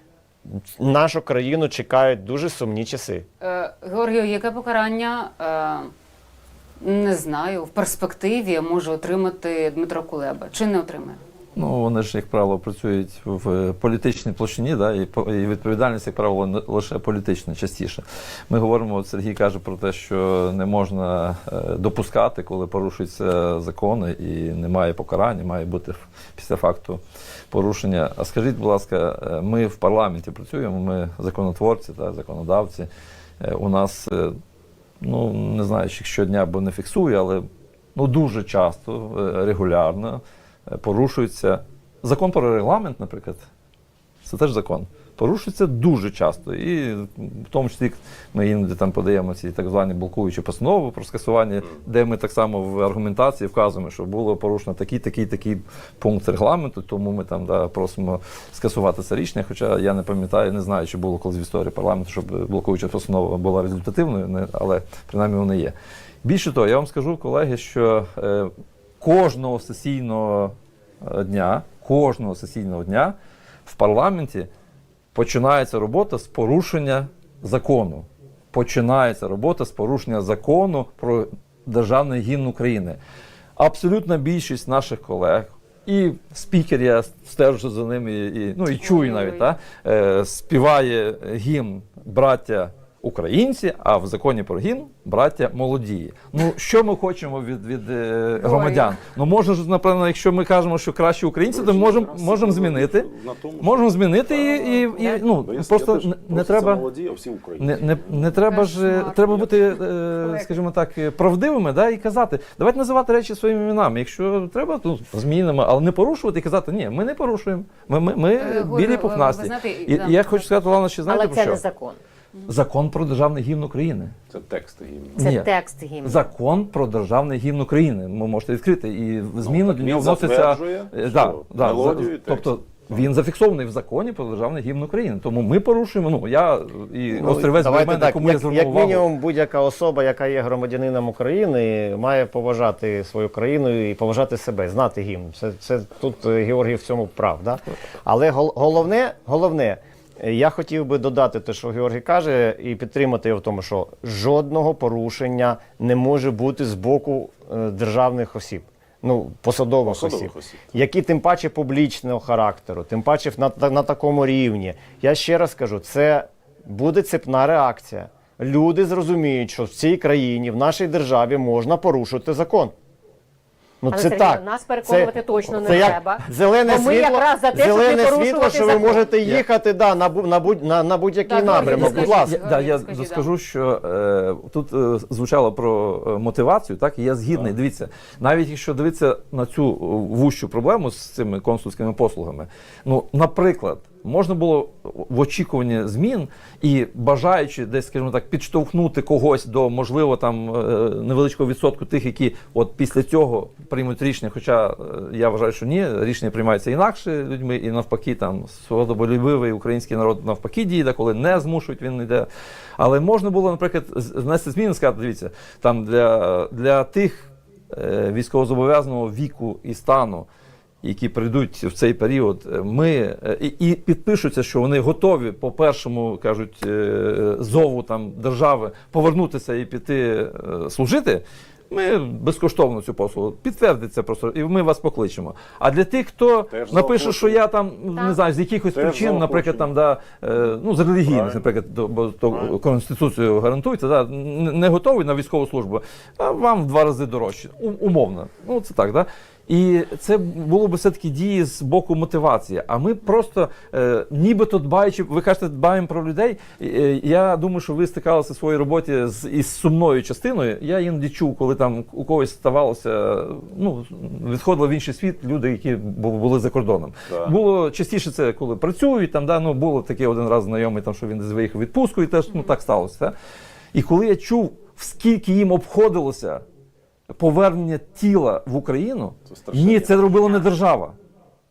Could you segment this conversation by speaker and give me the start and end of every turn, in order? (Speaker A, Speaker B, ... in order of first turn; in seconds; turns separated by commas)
Speaker A: 0.5-3.2, Speaker B: 3.4-5.9, Speaker B: 6.8-11.2, Speaker C: 11.5-32.9, Speaker C: 33.4-34.3, Speaker C: 35.0-37.4, Speaker C: 37.9-43.5, Speaker C: 44.2-73.1, Speaker C: 73.7-74.5, Speaker C: 75.1-83.0, Speaker C: 83.6-103.1, Speaker B: 88.8-89.4, Speaker B: 98.4-98.9, Speaker D: 101.5-108.4, Speaker C: 103.6-106.8, Speaker C: 107.6-121.6, Speaker B: 108.4-110.5, Speaker B: 118.4-120.3, Speaker E: 121.1-122.0, Speaker C: 122.5-124.1, Speaker D: 124.3-125.3, Speaker C: 125.2-139.1, Speaker E: 125.2-126.1, Speaker D: 129.4-133.0, Speaker A: 137.1-172.7, Speaker D: 159.9-160.7, Speaker A: 173.8-182.4, Speaker E: 173.9-179.0, Speaker C: 179.0-179.4, Speaker B: 181.2-183.2, Speaker C: 181.8-212.3, Speaker C: 212.8-220.3, Speaker C: 220.8-273.1, Speaker D: 236.5-237.4, Speaker D: 238.7-239.7, Speaker D: 241.1-241.4, Speaker C: 273.7-276.4, Speaker C: 277.2-280.9, Speaker D: 279.3-280.0